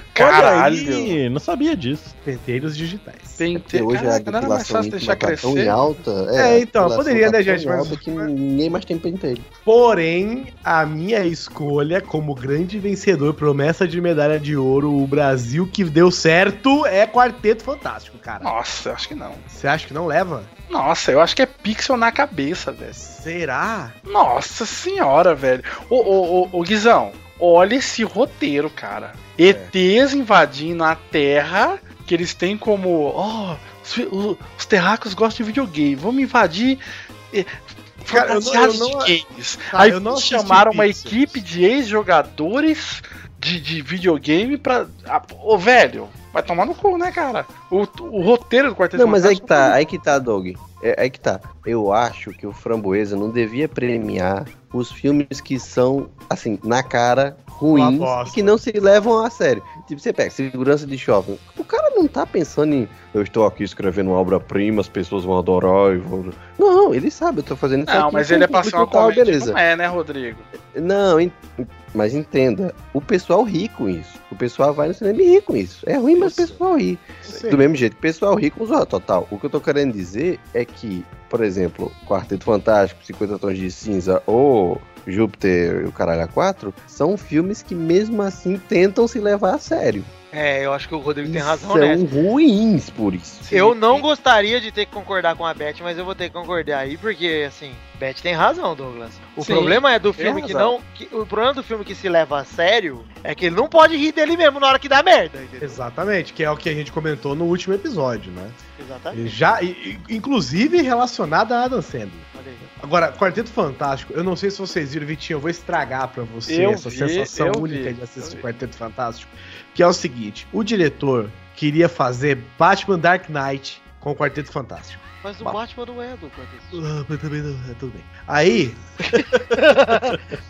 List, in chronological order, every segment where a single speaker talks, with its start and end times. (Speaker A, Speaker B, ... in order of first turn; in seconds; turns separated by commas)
Speaker A: 0.1-1.2, Speaker B: 0.2-2.1, Speaker C: 2.2-3.4, Speaker A: 3.4-6.0, Speaker D: 3.5-9.5, Speaker C: 6.4-8.3, Speaker C: 9.7-18.5, Speaker A: 18.4-19.5, Speaker C: 19.5-20.5, Speaker A: 20.7-23.0, Speaker C: 22.9-24.0, Speaker A: 24.1-49.8, Speaker C: 29.4-29.7, Speaker C: 38.1-39.1, Speaker C: 39.7-41.4, Speaker D: 49.0-69.6, Speaker C: 57.7-58.6, Speaker A: 67.9-70.5, Speaker D: 70.7-90.1, Speaker C: 76.2-76.6, Speaker C: 77.2-77.6, Speaker E: 90.3-92.1, Speaker D: 91.2-93.5, Speaker A: 93.4-94.1, Speaker E: 93.5-105.8, Speaker A: 99.4-100.7, Speaker C: 105.6-108.6, Speaker E: 108.8-109.4, Speaker C: 109.1-125.6, Speaker E: 112.3-112.7, Speaker A: 116.5-118.4, Speaker E: 125.2-126.8, Speaker C: 126.7-129.2, Speaker E: 129.1-130.2